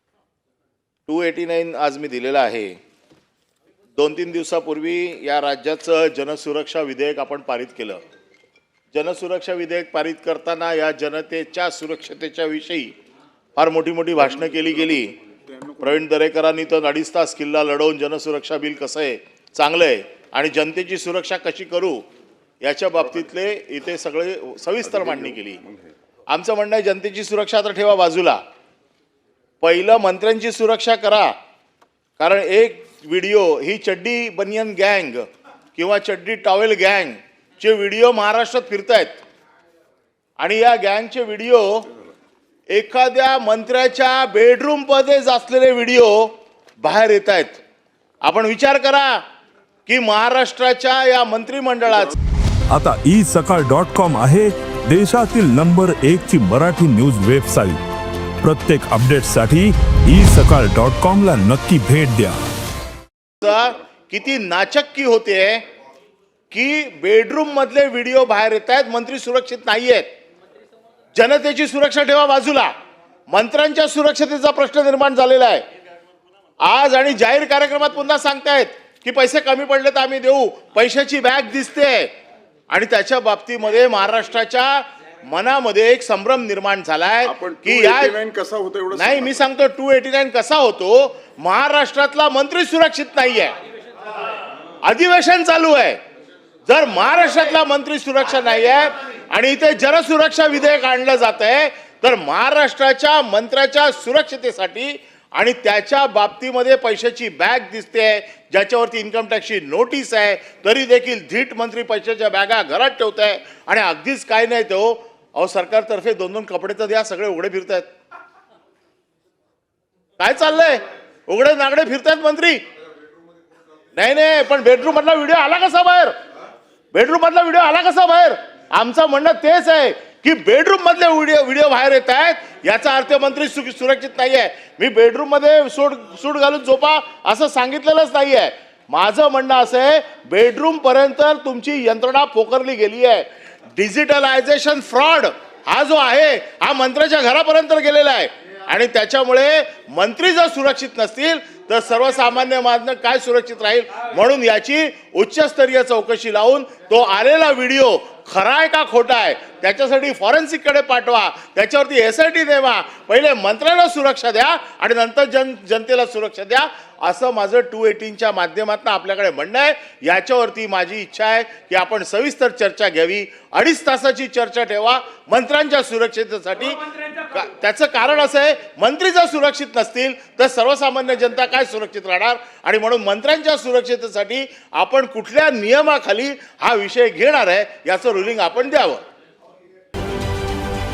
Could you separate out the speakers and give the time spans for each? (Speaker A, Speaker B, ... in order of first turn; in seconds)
Speaker A: 1.1-2.8, 4.0-8.0, 8.9-12.9, 13.6-15.1, 15.8-22.0, 22.6-25.6, 26.3-28.4, 29.6-31.3, 32.2-39.2, 40.4-41.9, 42.7-47.6, 48.2-49.2, 49.9-52.1, 63.4-65.6, 66.5-70.1, 71.1-72.7, 73.3-75.6, 76.6-82.1, 82.7-88.2, 88.9-93.5, 94.8-96.0, 96.7-117.9, 120.2-122.6, 124.0-126.1, 126.9-189.0
Speaker B: 15.5-15.9, 24.9-25.9, 87.3-89.4
Speaker C: 52.7-57.8, 58.4-62.4